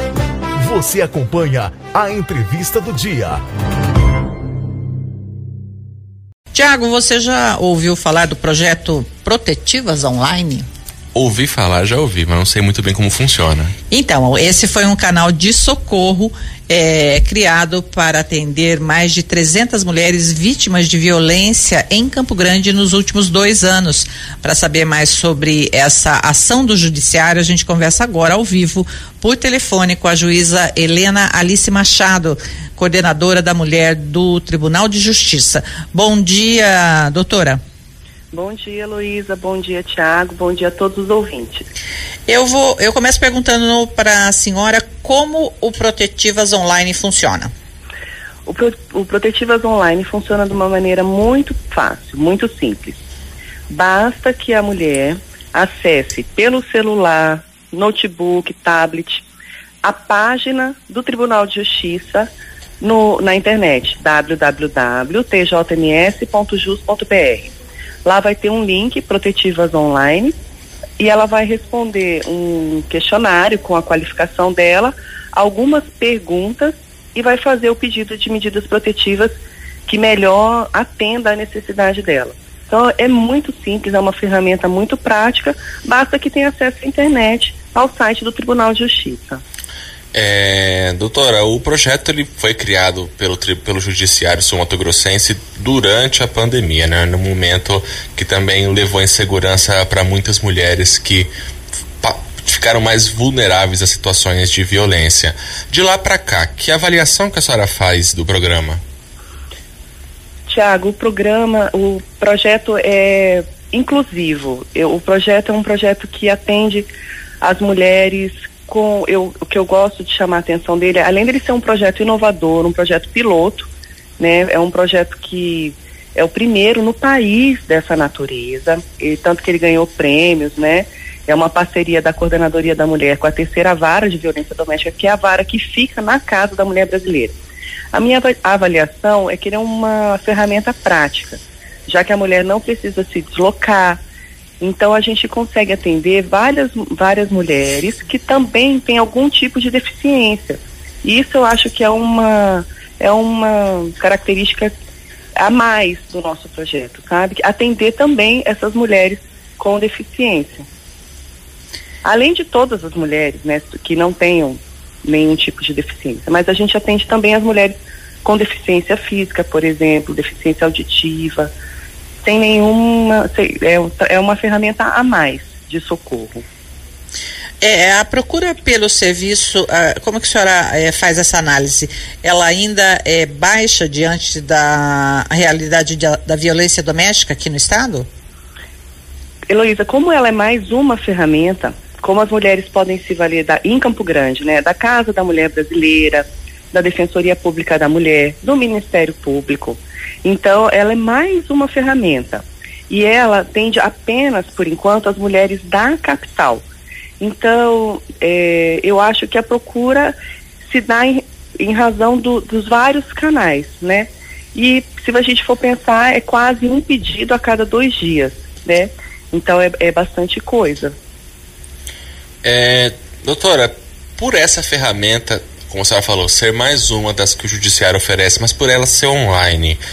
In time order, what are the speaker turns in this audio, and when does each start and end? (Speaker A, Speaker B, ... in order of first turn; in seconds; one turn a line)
Speaker A: 0.6-3.4
Speaker B: 6.5-10.7
Speaker C: 11.1-13.7
Speaker B: 13.9-37.6
Speaker D: 38.3-41.7
Speaker B: 42.3-47.5
Speaker D: 48.5-53.0
Speaker D: 53.7-59.2
Speaker D: 59.8-67.5
Speaker D: 68.0-70.3
Speaker D: 71.0-89.4
Speaker C: 90.1-101.3
Speaker C: 102.0-108.8
Speaker D: 110.5-116.9
Speaker D: 117.4-137.4
Speaker D: 137.9-144.0
Speaker D: 144.6-154.7
Speaker D: 155.4-160.7
Speaker D: 162.1-171.5
Speaker D: 172.2-176.4
Speaker B: 177.6-188.1
Speaker D: 189.5-206.6
Speaker D: 207.2-220.9
Speaker C: 222.4-229.8